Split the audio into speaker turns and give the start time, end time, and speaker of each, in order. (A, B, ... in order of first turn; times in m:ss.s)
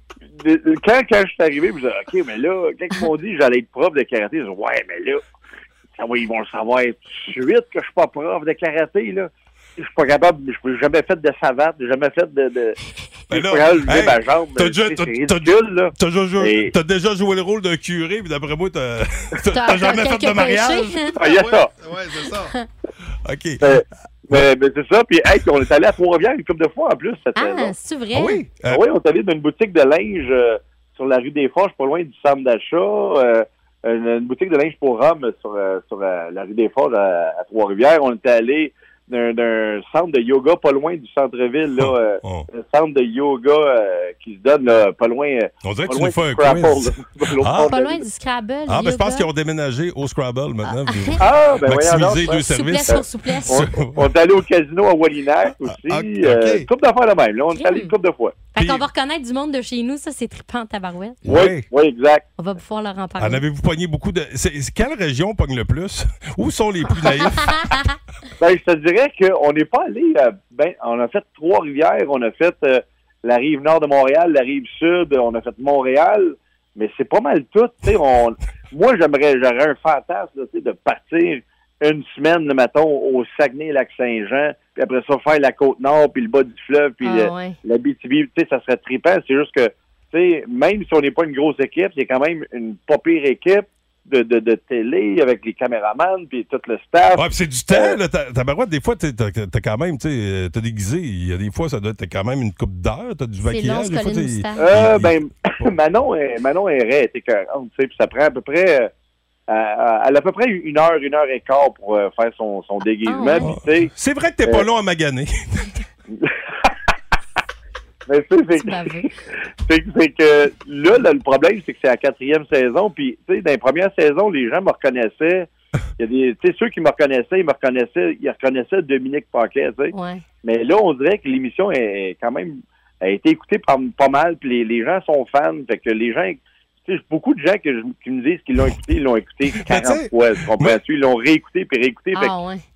0:00.3-0:05.2 A
0:06.0-0:12.8 A
0:13.3-0:22.5 B
0:13.3-0:16.7 A
0:19.5-0:21.1 C
0:21.1-0:21.7 A
0:23.2-0:24.5 B
0:23.6-0:27.7 A
0:27.4-0:28.4 C
0:28.1-0:28.8 B
0:28.7-0:48.0 A
0:41.8-0:42.5 B
0:45.6-0:47.7 B
0:47.7-0:49.3 C
0:48.7-0:54.1 B
0:50.6-0:51.2 C
0:51.2-0:58.4 A
0:52.2-0:53.6 C
0:55.6-0:56.7 B
0:57.5-0:57.9 C
0:58.5-1:01.3 C
0:58.6-0:58.8 B
1:01.2-1:01.6 B
1:01.2-1:02.2 A
1:02.4-1:03.4 C
1:03.2-1:07.7 B
1:07.0-1:07.8 C
1:08.4-1:38.0 A
1:27.0-1:27.6 C
1:37.2-1:45.7 B
1:43.4-1:44.6 C
1:44.6-1:48.9 A
1:49.5-1:53.9 A
1:53.0-1:53.5 C
1:53.4-1:55.7 B
1:56.1-1:56.7 A
1:58.1-1:59.0 A
1:58.6-1:59.1 C
1:59.6-2:22.3 A
2:09.9-2:10.2 C
2:19.6-2:20.8 B
2:22.1-2:22.6 C